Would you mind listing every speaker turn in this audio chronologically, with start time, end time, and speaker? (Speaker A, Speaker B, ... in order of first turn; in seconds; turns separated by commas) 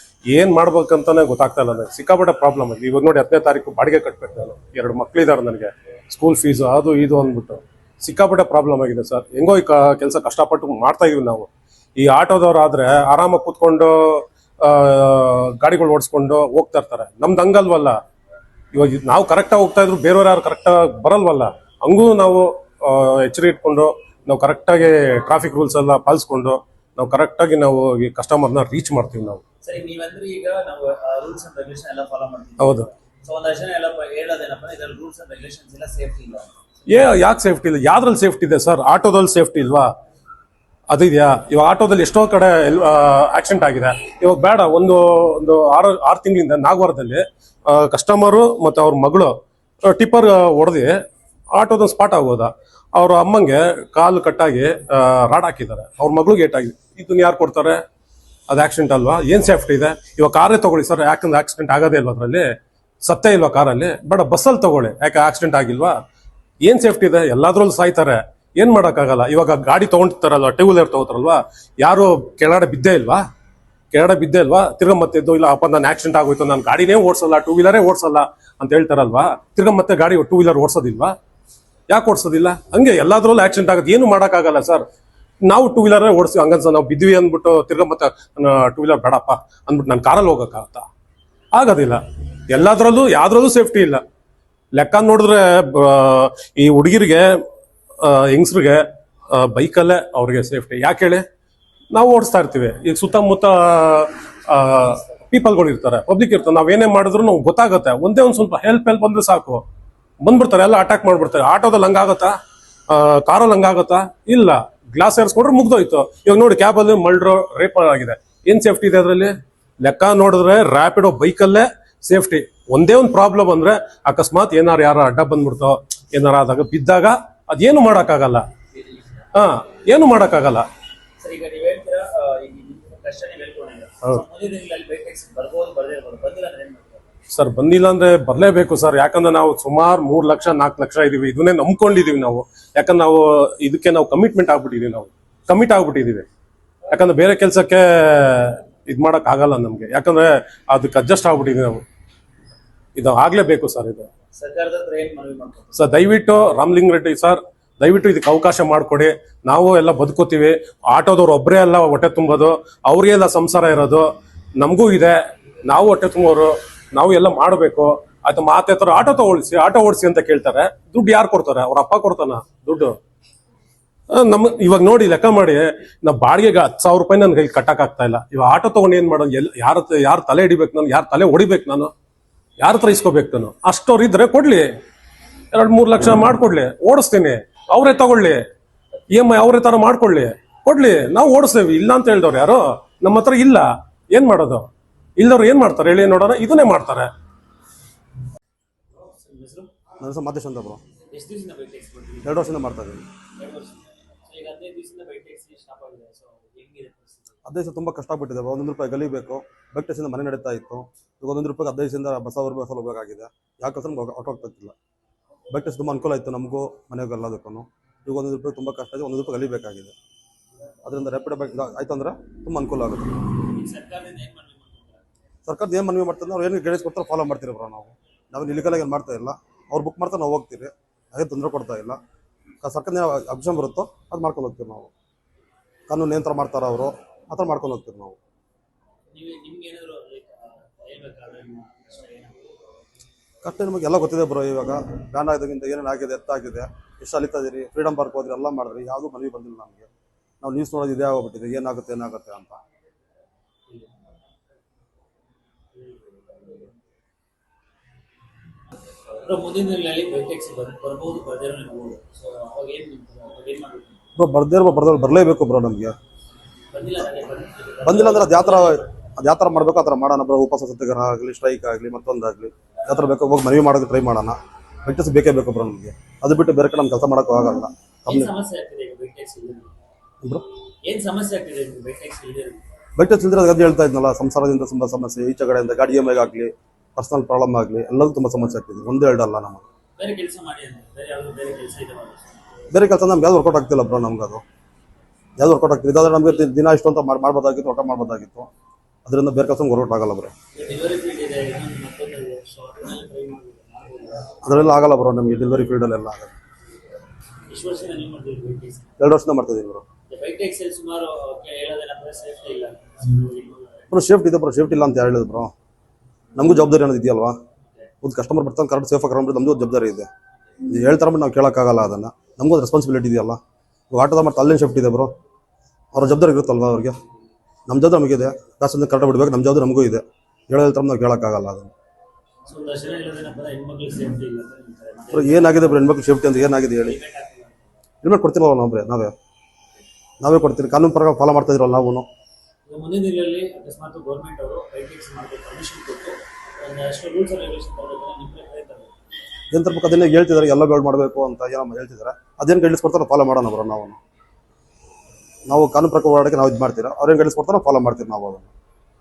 Speaker A: 0.3-18.0, Speaker A: 18.7-29.4, Speaker B: 29.6-37.1, Speaker A: 32.6-32.9, Speaker A: 36.9-39.9, Speaker A: 40.9-51.0, Speaker A: 51.5-57.8, Speaker A: 58.5-62.5, Speaker A: 63.0-66.0, Speaker A: 66.6-73.2, Speaker A: 73.9-81.1, Speaker A: 81.9-84.8, Speaker A: 85.5-90.9, Speaker A: 91.5-94.0, Speaker A: 94.7-97.4, Speaker A: 98.0-101.2, Speaker A: 101.9-109.6, Speaker A: 110.2-112.3, Speaker A: 112.9-128.5, Speaker B: 128.7-129.3, Speaker A: 129.3-130.7, Speaker B: 131.2-137.1, Speaker A: 137.3-146.2, Speaker A: 146.9-151.8, Speaker A: 153.0-154.1, Speaker B: 154.3-155.9, Speaker A: 155.7-173.0, Speaker A: 174.1-181.9, Speaker A: 182.6-184.7, Speaker A: 185.5-188.4, Speaker A: 189.1-194.7, Speaker A: 195.2-197.1, Speaker B: 199.0-199.7, Speaker C: 200.0-200.8, Speaker B: 201.1-202.5, Speaker C: 202.2-203.1, Speaker B: 203.4-207.4, Speaker C: 207.4-214.8, Speaker C: 215.5-219.9, Speaker C: 220.8-223.2, Speaker B: 223.4-225.1, Speaker C: 225.5-232.0, Speaker C: 232.6-234.9, Speaker C: 235.9-238.2, Speaker B: 239.1-242.5, Speaker C: 243.4-249.9, Speaker C: 250.4-252.6, Speaker B: 255.8-256.7, Speaker B: 259.2-264.0, Speaker C: 264.2-266.0, Speaker B: 266.7-268.9, Speaker C: 267.8-278.3, Speaker B: 278.1-279.7, Speaker B: 280.9-282.6, Speaker C: 283.0-289.6, Speaker B: 290.0-292.4, Speaker C: 292.7-294.4, Speaker C: 295.4-298.5, Speaker C: 299.1-300.3, Speaker B: 300.5-304.4, Speaker C: 304.4-306.3, Speaker B: 307.5-308.9, Speaker C: 309.0-309.9, Speaker B: 310.1-313.9, Speaker C: 313.9-315.5, Speaker C: 316.4-317.4, Speaker C: 318.0-320.1, Speaker C: 320.6-323.4, Speaker C: 323.9-325.1, Speaker C: 325.9-327.0, Speaker C: 327.7-331.7, Speaker B: 332.5-337.8, Speaker C: 335.1-337.0, Speaker C: 338.0-339.1, Speaker C: 340.2-342.1, Speaker B: 342.7-348.9, Speaker C: 349.5-354.0, Speaker C: 355.5-358.5